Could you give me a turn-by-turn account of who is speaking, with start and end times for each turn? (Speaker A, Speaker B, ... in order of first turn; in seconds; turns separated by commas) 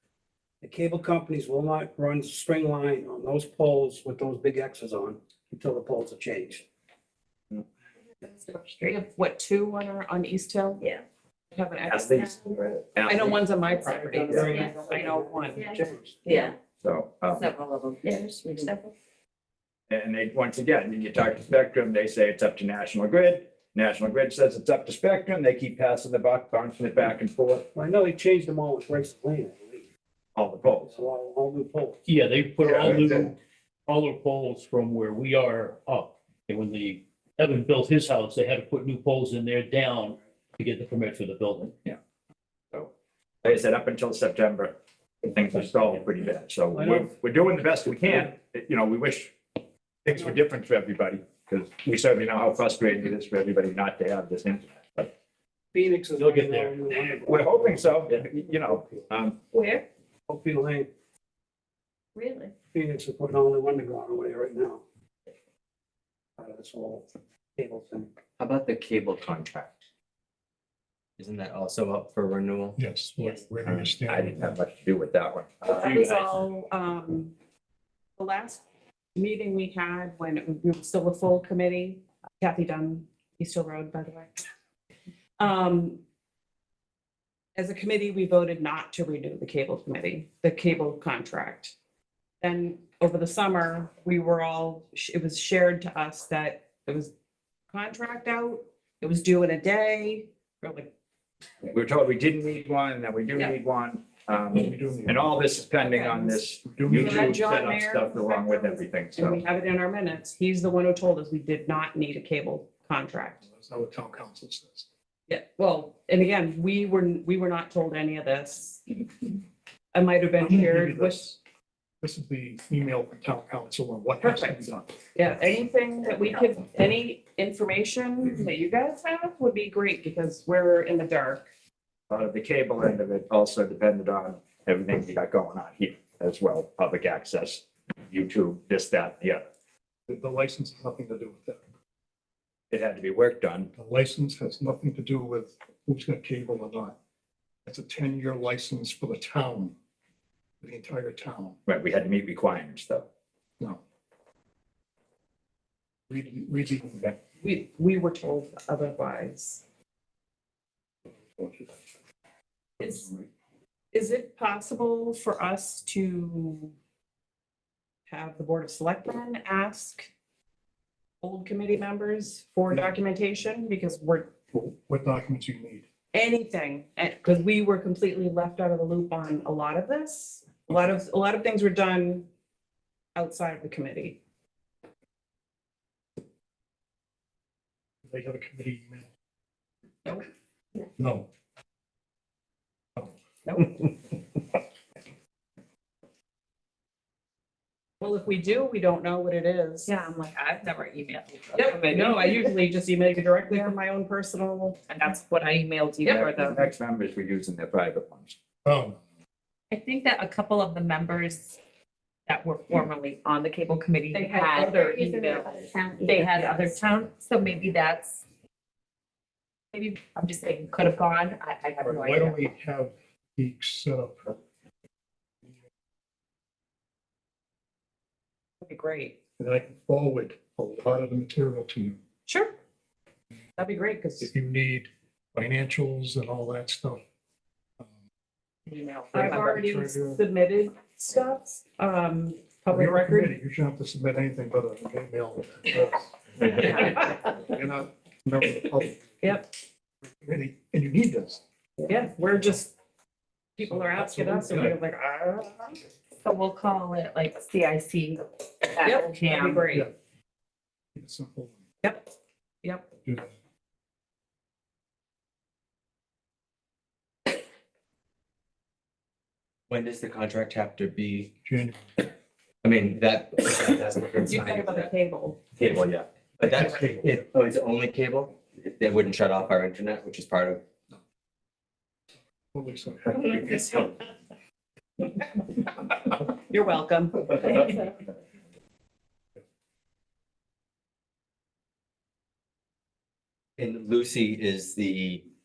Speaker A: 0.6-6.6, Speaker B: 8.3-8.9, Speaker C: 8.8-10.8, Speaker C: 11.5-12.3, Speaker D: 11.8-13.4, Speaker C: 13.1-15.7, Speaker A: 13.8-16.5, Speaker D: 14.3-14.6, Speaker B: 14.4-14.7, Speaker B: 16.2-16.6, Speaker D: 16.8-17.5, Speaker B: 17.3-18.9, Speaker D: 19.9-27.6, Speaker A: 27.7-29.9, Speaker D: 30.4-30.9, Speaker A: 30.6-32.0, Speaker E: 32.1-33.4, Speaker A: 32.6-33.3, Speaker E: 33.9-41.7, Speaker D: 43.4-49.4, Speaker A: 46.7-47.1, Speaker D: 50.0-55.1, Speaker A: 55.7-59.1, Speaker E: 56.2-56.8, Speaker D: 57.3-59.4, Speaker B: 59.5-59.8, Speaker A: 60.3-60.9, Speaker B: 62.2-62.5, Speaker A: 62.7-64.8, Speaker A: 66.4-68.1, Speaker F: 68.4-69.9, Speaker F: 71.2-72.8, Speaker G: 72.8-74.6, Speaker F: 73.6-74.0, Speaker D: 74.1-75.9, Speaker F: 75.7-76.3, Speaker C: 75.7-77.3, Speaker C: 78.2-78.6, Speaker C: 79.2-84.3, Speaker C: 85.4-86.0, Speaker C: 87.6-91.7, Speaker C: 92.4-97.1, Speaker C: 97.7-100.9, Speaker D: 101.7-109.4, Speaker G: 104.5-105.2, Speaker C: 105.8-113.4, Speaker G: 106.7-107.4, Speaker G: 113.5-114.9, Speaker C: 115.3-118.8, Speaker C: 119.9-121.3, Speaker G: 120.4-121.4, Speaker G: 122.0-124.8, Speaker C: 124.2-124.6, Speaker C: 125.2-131.4, Speaker D: 132.1-139.4, Speaker G: 140.1-141.6, Speaker D: 142.7-143.7, Speaker G: 143.8-147.0, Speaker G: 147.7-149.8, Speaker G: 150.6-151.6, Speaker D: 151.7-153.1, Speaker G: 156.1-157.2, Speaker C: 157.4-159.6, Speaker G: 161.4-161.7, Speaker C: 162.8-163.1, Speaker C: 163.9-166.7, Speaker C: 168.1-170.1, Speaker C: 171.2-174.3, Speaker G: 174.5-175.9, Speaker C: 176.1-182.3, Speaker C: 183.2-184.2, Speaker G: 188.1-189.1, Speaker G: 191.0-191.3, Speaker C: 193.5-193.8, Speaker C: 198.0-199.9, Speaker B: 199.9-202.6, Speaker C: 201.6-204.8, Speaker B: 204.9-206.6, Speaker C: 206.0-206.6, Speaker D: 206.1-208.3, Speaker G: 208.7-209.0, Speaker B: 209.7-211.6, Speaker B: 212.3-218.2, Speaker C: 214.1-215.4, Speaker C: 216.3-216.7, Speaker B: 219.7-222.4, Speaker G: 221.8-224.4, Speaker C: 228.6-229.2, Speaker G: 229.4-232.0, Speaker C: 232.3-232.6, Speaker C: 233.6-234.3, Speaker G: 234.2-237.0, Speaker B: 238.7-239.6, Speaker C: 239.1-243.3, Speaker G: 239.2-240.2, Speaker G: 242.7-249.3, Speaker C: 246.8-247.1, Speaker C: 249.2-249.5, Speaker G: 250.2-251.4, Speaker C: 251.8-252.7, Speaker C: 253.6-255.8, Speaker G: 253.6-254.8, Speaker B: 256.2-259.6, Speaker C: 258.8-259.9, Speaker G: 260.9-261.6, Speaker C: 261.8-262.1, Speaker G: 263.1-263.3, Speaker F: 269.7-271.3, Speaker G: 271.4-271.8, Speaker F: 272.6-274.9, Speaker C: 274.2-275.4, Speaker F: 275.6-280.6, Speaker G: 276.4-277.1, Speaker G: 282.5-283.5, Speaker F: 283.3-283.9, Speaker C: 286.3-287.9, Speaker F: 293.6-295.3